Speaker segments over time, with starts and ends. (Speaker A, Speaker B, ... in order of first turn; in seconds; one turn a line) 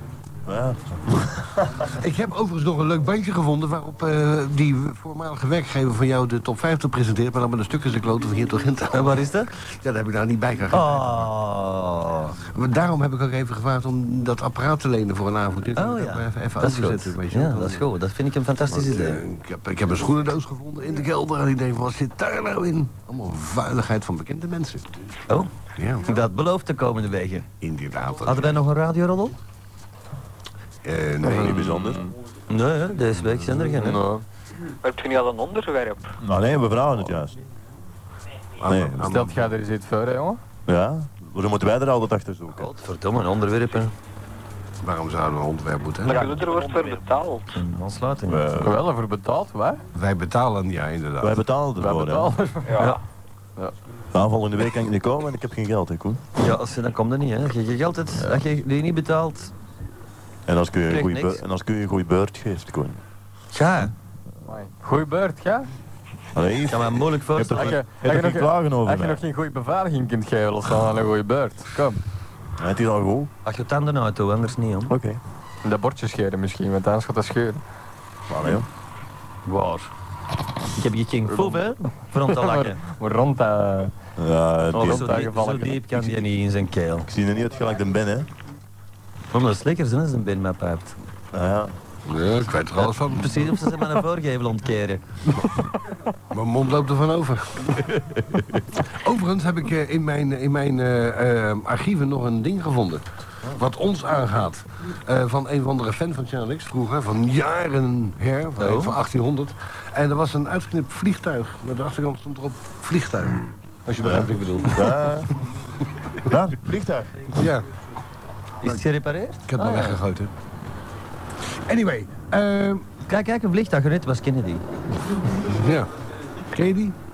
Speaker A: 0.5-2.0
Speaker B: 2.0-11.3
Speaker C: 8.9-9.5
Speaker C: 10.7-12.4
Speaker B: 12.4-17.9
Speaker C: 15.8-19.2
Speaker B: 18.7-24.9
Speaker C: 25.3-27.5
Speaker B: 25.7-26.1
Speaker B: 27.6-28.6
Speaker C: 28.2-29.4
Speaker B: 30.8-31.8
Speaker D: 31.2-32.1
Speaker A: 31.3-32.0
Speaker C: 32.5-34.0
Speaker D: 33.7-34.2
Speaker E: 34.8-36.1
Speaker A: 36.2-37.4
Speaker B: 38.6-39.5
Speaker A: 38.7-39.0
Speaker D: 39.0-40.4
Speaker A: 40.7-42.7
Speaker C: 42.5-43.9
Speaker B: 44.8-46.4
Speaker E: 46.0-47.5
Speaker C: 47.5-48.7
Speaker A: 48.3-48.8
Speaker D: 48.6-49.8
Speaker B: 49.9-51.4
Speaker A: 51.2-52.4
Speaker D: 51.8-53.0
Speaker E: 52.6-53.0
Speaker A: 54.1-56.2
Speaker C: 56.4-59.5
Speaker A: 60.5-63.0
Speaker C: 60.9-61.4
Speaker C: 63.5-63.9
Speaker D: 64.5-65.7
Speaker A: 66.3-69.2
Speaker C: 66.7-67.8
Speaker D: 67.6-72.0
Speaker A: 72.6-73.3
Speaker C: 73.5-74.9
Speaker A: 74.9-75.2
Speaker D: 75.6-77.6
Speaker A: 78.3-78.7
Speaker C: 79.5-79.9
Speaker C: 80.7-82.8
Speaker D: 81.3-81.7
Speaker D: 82.2-83.9
Speaker A: 84.2-85.1
Speaker D: 84.7-86.2
Speaker C: 84.7-87.1
Speaker A: 87.1-88.3
Speaker C: 89.3-91.0
Speaker A: 91.3-91.7
Speaker B: 92.0-93.3
Speaker C: 92.8-95.2
Speaker B: 96.3-97.8
Speaker B: 98.7-115.1
Speaker C: 108.6-109.0
Speaker A: 114.0-115.3
Speaker A: 116.2-117.3
Speaker B: 117.3-117.7
Speaker C: 118.6-120.0
Speaker B: 119.5-120.3
Speaker B: 121.7-122.8
Speaker C: 123.0-124.6
Speaker B: 125.5-125.9
Speaker B: 126.5-127.0